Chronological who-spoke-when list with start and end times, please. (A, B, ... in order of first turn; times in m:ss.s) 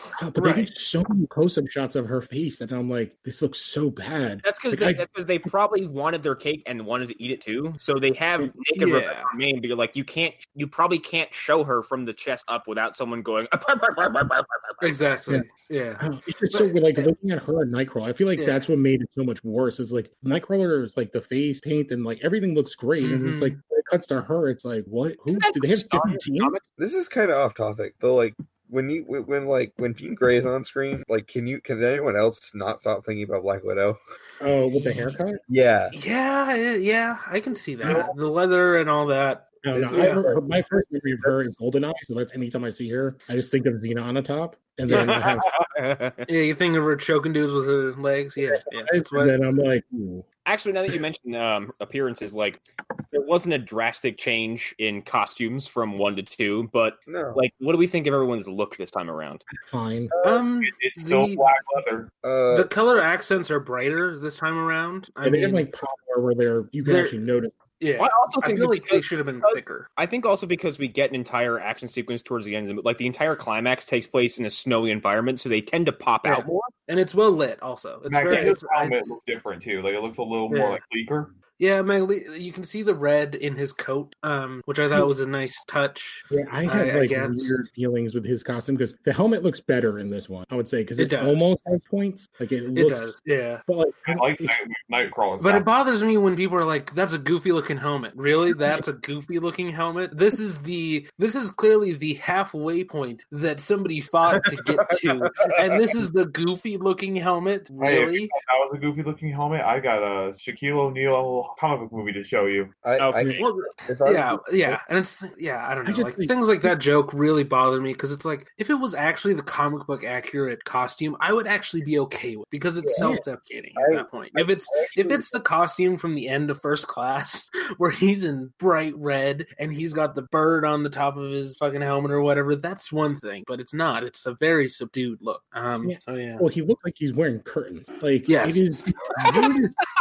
0:00.2-0:05.0 A
0:00.4-0:00.7 B
0:04.4-0:15.0 C
0:08.8-0:09.3 B
0:14.8-0:17.1 B
0:16.0-0:26.6 A
0:18.4-0:18.7 B
0:23.0-0:23.6 B
0:25.3-0:26.6 C
0:26.8-0:34.0 D
0:34.4-0:35.4 A
0:34.7-0:35.1 B
0:35.5-0:36.0 D
0:35.9-0:40.2 B
0:39.6-0:45.5 A
0:39.7-0:40.4 D
0:44.9-0:45.2 B
0:44.9-0:46.3 C
0:46.3-0:49.4 B
0:48.4-0:50.3 A
0:50.5-0:59.5 C
0:57.1-0:57.4 D
0:59.6-1:00.1 A
1:00.1-1:00.4 D
1:00.2-1:01.5 B
1:00.6-1:02.1 E
1:02.2-1:02.7 D
1:02.5-1:05.7 B
1:05.2-1:07.6 A
1:06.8-1:07.2 B
1:07.8-1:09.9 B
1:08.0-1:16.7 C
1:16.2-1:19.1 B
1:18.1-1:21.3 E
1:20.5-1:20.8 B
1:21.6-1:27.6 B
1:26.3-1:34.6 A
1:31.0-1:31.6 B
1:32.7-1:33.6 B
1:34.1-1:35.7 E
1:35.4-1:48.3 B
1:44.5-1:45.6 C
1:47.8-1:52.7 E
1:52.8-1:54.8 D
1:53.0-1:53.4 C
1:53.4-2:16.4 B
1:55.8-1:56.7 A
2:02.8-2:03.2 D
2:03.8-2:05.4 D
2:15.8-2:19.8 A
2:18.3-2:18.8 B